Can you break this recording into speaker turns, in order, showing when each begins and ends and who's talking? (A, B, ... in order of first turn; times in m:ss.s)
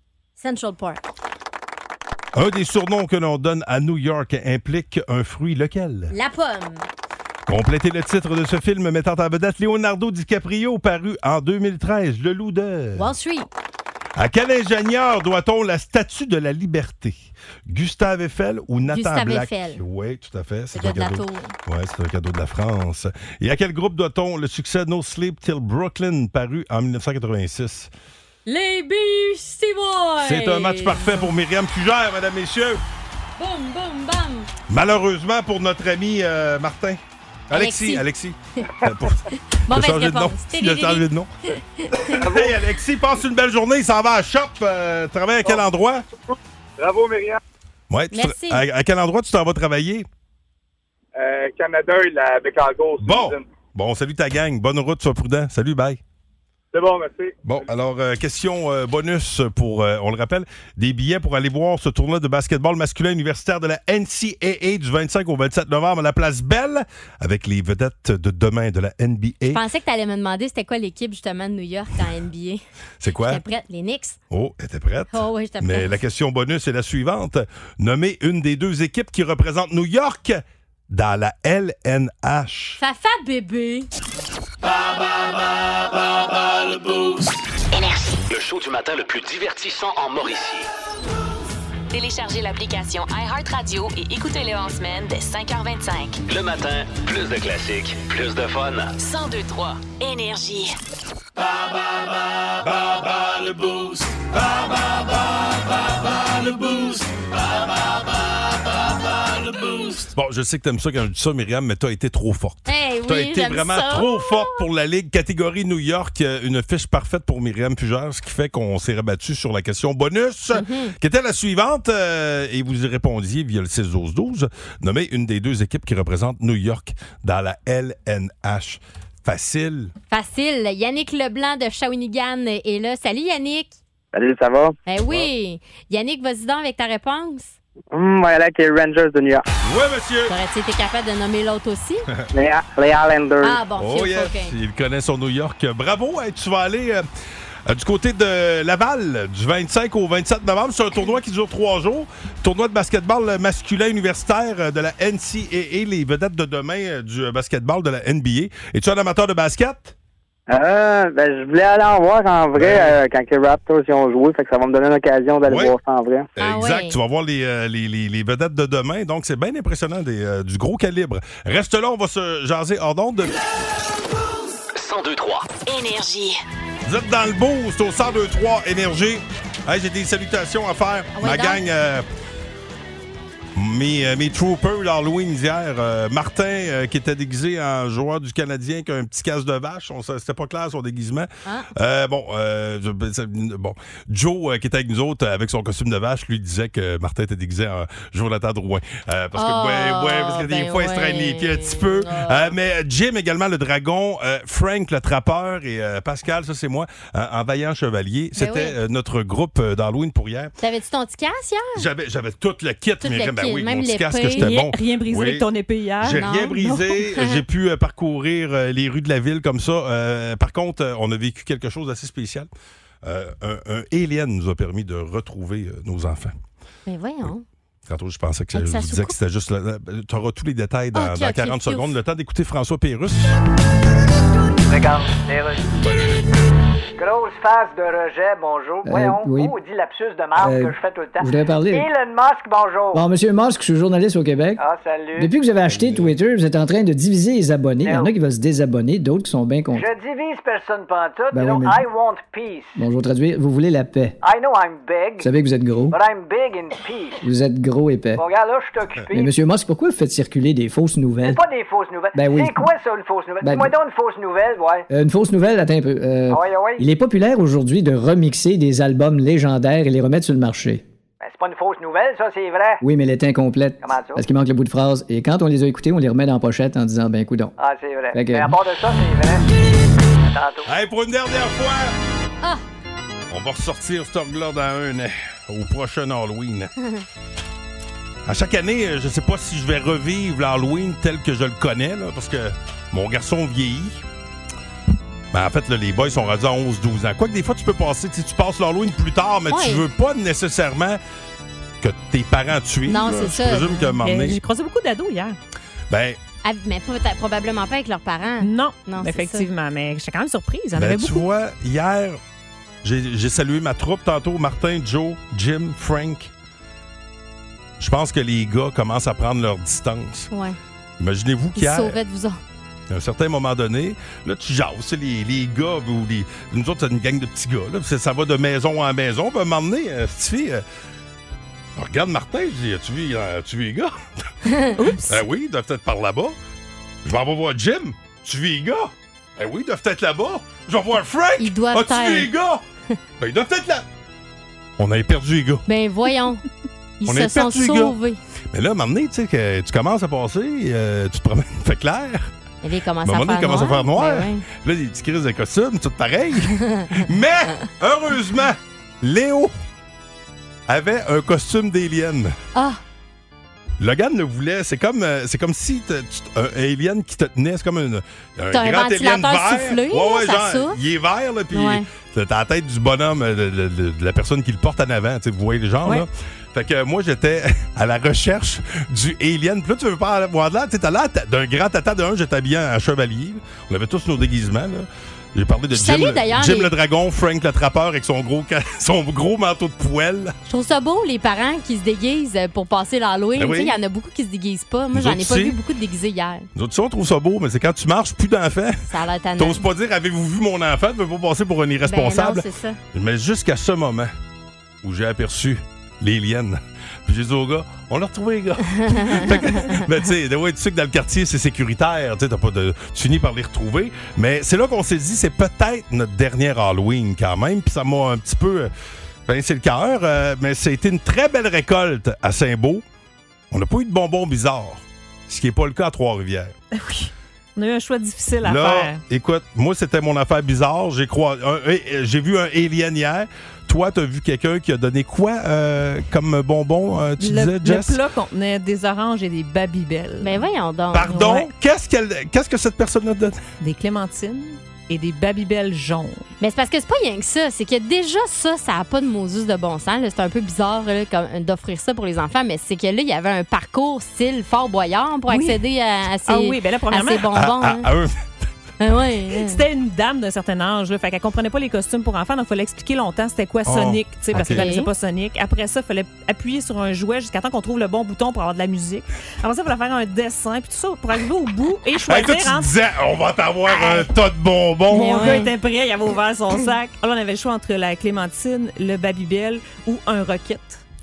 0:00.4-0:01.0 A
0:02.4-0:06.1 B
0:06.1-0:06.9 A
0:07.5-0:13.1 B
0:13.0-0:13.5 A
0:14.2-0:27.9 B
0:18.9-0:19.8 A
0:20.7-0:21.6 A
0:28.5-0:31.3 A
0:30.2-0:32.8 B
0:33.4-0:34.5 A
0:34.7-0:37.0 B
0:37.5-0:41.3 B
0:37.5-0:38.0 A
0:39.7-0:41.1 A
0:41.8-0:42.2 A
0:42.0-0:46.0 B
0:42.2-0:42.5 C
0:46.3-0:47.4 C
0:47.9-0:50.1 B
0:48.1-0:48.6 A
0:51.2-0:53.5 C
0:53.0-0:56.0 B
0:56.7-0:57.4 C
0:57.4-1:09.6 B
1:09.5-1:12.6 A
1:13.0-1:13.4 B
1:13.2-1:14.2 A
1:14.3-1:22.8 B
1:15.1-1:16.0 A
1:22.8-1:23.9 A
1:26.4-1:27.2 D
1:27.7-1:28.2 E
1:28.2-1:30.7 D
1:31.9-1:36.2 E
1:36.3-1:39.0 D
1:39.0-1:40.8 E
1:42.8-1:44.4 D
1:46.4-1:47.0 D
1:50.0-2:09.9 B
1:52.7-1:54.6 A
2:00.5-2:01.0 A
2:10.1-2:13.8 A
2:14.1-2:14.7 F
2:14.9-2:17.6 A
2:17.9-2:19.4 F
2:19.6-2:20.3 B
2:20.3-2:22.0 A
2:22.3-2:23.6 F
2:23.4-2:24.5 A
2:23.7-2:27.0 B
2:27.7-2:39.9 B
2:40.5-2:46.3 F
2:42.6-2:43.0 B
2:45.5-2:45.8 B
2:46.4-2:53.4 B
2:46.4-2:47.0 A
2:54.8-2:55.6 D
2:55.6-2:56.4 E
2:56.9-3:02.1 B
3:01.2-3:01.6 A
3:03.6-3:30.5 B
3:11.4-3:11.7 A
3:19.4-3:22.5 A
3:28.4-3:28.8 A
3:30.6-3:31.9 A
3:31.8-3:35.5 B
3:33.0-3:34.5 A
3:34.4-3:36.3 G
3:36.0-3:42.5 B
3:36.2-3:37.4 A
3:43.0-3:46.4 B
3:46.9-3:47.4 A
3:47.9-3:53.4 B
3:48.5-3:49.2 A
3:50.9-3:51.9 A
3:54.6-3:55.7 H
3:57.0-4:03.0 H
3:58.8-3:59.6 I
4:00.4-4:01.9 I
4:02.9-4:04.6 I
4:04.6-4:05.3 H
4:05.2-4:09.9 I
4:05.8-4:06.1 B
4:07.8-4:08.1 H
4:09.7-4:12.8 H
4:11.3-4:11.8 I
4:12.8-4:14.2 I
4:14.2-4:15.3 H
4:15.2-4:16.0 I
4:15.9-4:17.2 H
4:17.2-4:18.2 I
4:18.2-4:19.3 H
4:19.1-4:21.4 I
4:21.2-4:24.9 H
4:22.1-4:22.7 I
4:23.4-4:23.7 I
4:24.9-4:30.8 I
4:26.3-4:26.8 H
4:31.2-4:32.8 H
4:32.8-4:37.5 I
4:33.8-4:34.2 H
4:37.6-4:39.4 H
4:38.1-4:38.6 I
4:40.3-4:40.7 H
4:40.7-4:41.9 B
4:43.3-4:46.7 B
4:48.3-4:54.0 B
4:55.3-5:01.0 B
4:59.5-4:59.8 A
5:01.8-5:04.4 B
5:02.8-5:03.9 A
5:04.0-5:05.4 G
5:05.9-5:06.2 B
5:06.4-5:09.5 A
5:08.4-5:11.3 G
5:10.8-5:12.2 B
5:12.8-5:16.3 B
5:17.8-5:20.3 B
5:20.3-5:20.6 A
5:21.0-5:22.0 B
5:21.6-5:22.4 A
5:22.9-5:30.6 B
5:31.8-5:34.0 B
5:34.4-5:34.8 A
5:34.8-5:35.2 G
5:35.1-5:36.4 B
5:37.0-5:42.6 B
5:41.4-5:42.3 A
5:43.2-5:43.9 B
5:44.8-5:45.6 B
5:45.7-5:46.4 A
5:47.0-5:48.2 A
5:47.1-5:48.0 B
5:48.5-5:52.3 B
5:52.6-5:54.4 A
5:53.0-5:59.5 B
5:56.6-5:57.0 A
6:00.7-6:02.4 B
6:02.6-6:02.8 A
6:03.8-6:30.4 B
6:08.5-6:10.8 A
6:11.5-6:11.9 A
6:25.7-6:26.7 A
6:30.5-6:36.5 A
6:33.4-6:33.8 B
6:34.9-6:35.6 B
6:36.6-6:38.8 B
6:38.9-6:39.6 A
6:39.4-6:44.1 B
6:41.9-6:42.8 A
6:44.8-6:58.7 B
6:48.9-6:49.8 A
6:59.3-7:02.8 B
7:03.5-7:06.5 B
7:06.7-7:09.0 G
7:08.4-7:18.0 B
7:17.2-7:20.4 G
7:20.2-7:21.4 A
7:20.9-7:23.4 B
7:21.1-7:21.4 G
7:23.6-7:26.3 G
7:26.4-7:37.9 A
7:35.3-7:35.6 G
7:36.3-7:37.3 G
7:37.3-7:38.2 B
7:38.8-7:39.6 A
7:39.4-7:52.7 G
7:43.7-7:44.6 B
7:44.4-7:44.9 A
7:52.1-7:55.3 B
7:54.9-8:00.8 G
7:54.9-7:55.5 A